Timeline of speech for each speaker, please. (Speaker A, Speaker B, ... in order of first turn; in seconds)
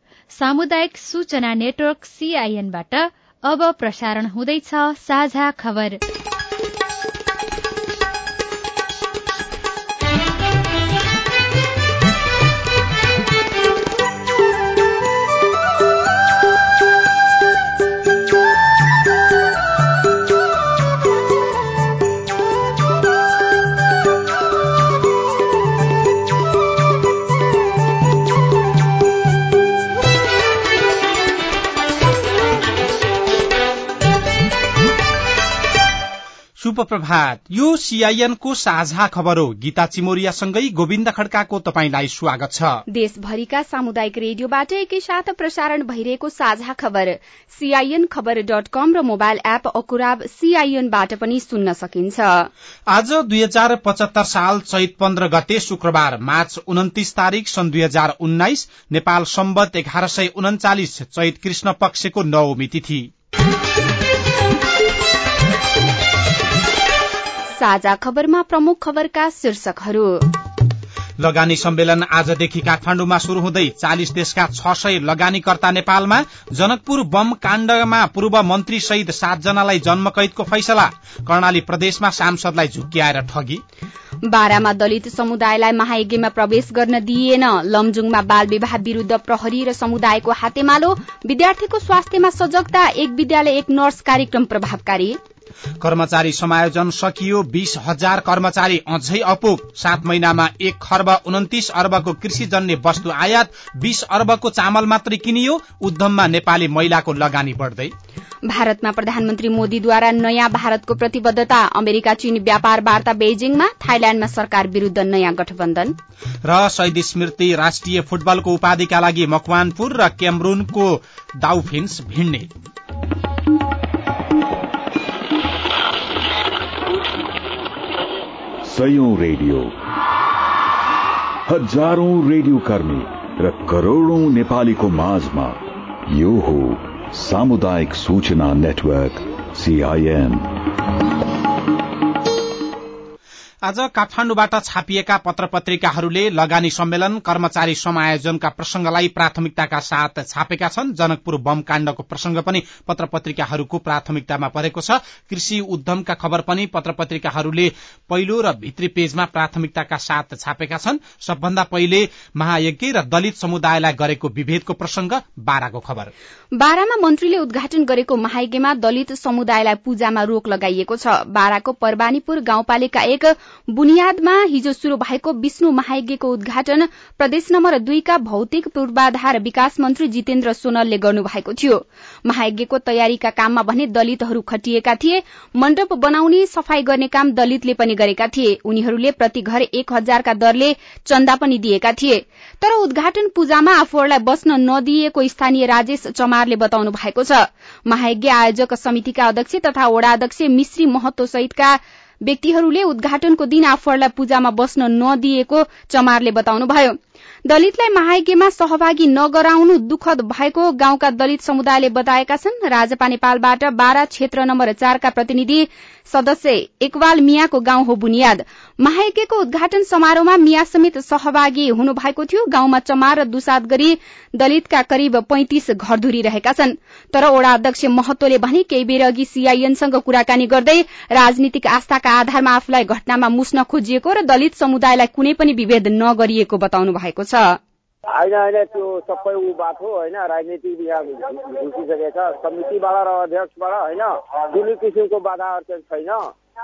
Speaker A: 0.3-6.0
Speaker B: 36.6-42.8, 52.9-63.1, 71.2-83.6, 95.8-107.9, 116.4-122.5, 143.6-166.1
Speaker C: 42.9-52.5, 67.6-70.2, 84.2-95.2, 108.5-115.9, 166.6-237.6
Speaker D: 128.6-129.7, 131.5-140.5
Speaker E: 238.1-246.3